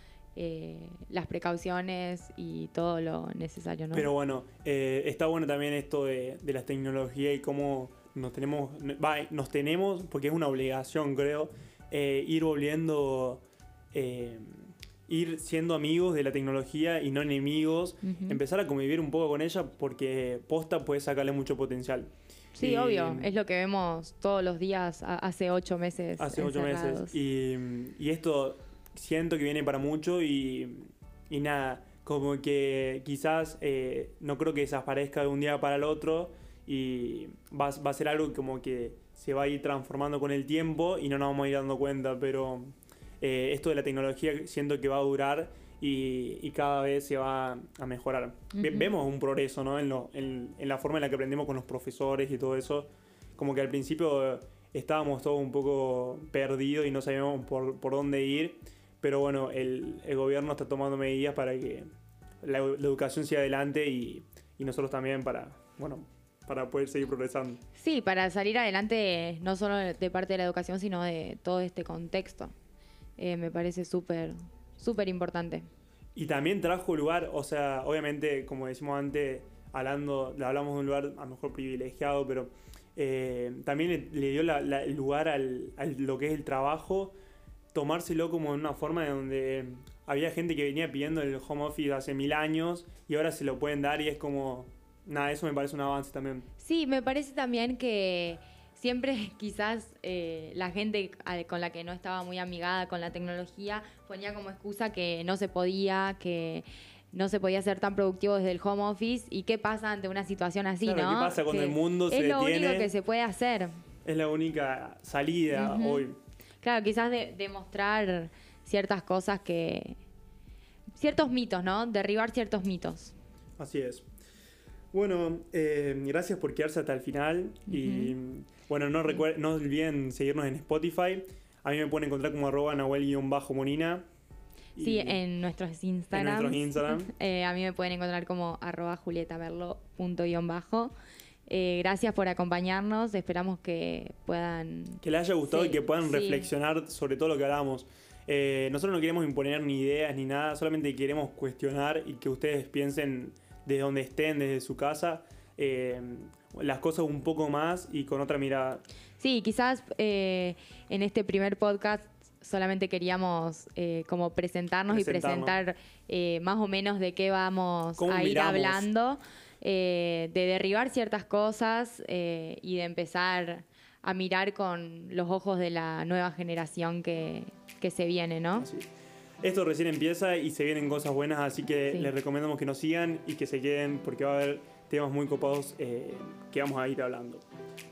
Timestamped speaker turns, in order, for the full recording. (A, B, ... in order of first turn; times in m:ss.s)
0:00.4-0:04.1 A
0:03.9-0:23.3 B
0:18.0-0:18.4 A
0:22.6-0:27.2 A
0:26.2-1:01.9 B
0:48.6-0:48.9 A
1:02.4-1:07.6 B
1:07.8-1:12.5 A
1:13.2-1:15.7 A
1:16.2-1:27.1 B
1:27.7-1:36.5 B
1:36.6-1:53.7 A
1:50.8-1:52.9 B
1:54.0-1:56.2 B
1:55.5-1:56.1 A
1:56.6-2:00.0 A
2:01.0-2:03.1 A
2:03.6-2:04.1 B
2:04.9-2:14.0 B
2:07.7-2:08.2 A
2:14.8-2:15.2 B
2:14.8-2:20.9 A
2:16.1-2:17.1 B
2:21.5-2:26.5 A
2:25.0-2:38.8 B
2:39.2-2:58.7 A
2:44.9-2:45.6 B
2:48.0-2:48.9 B
2:58.6-2:58.9 B
2:59.4-3:07.4 B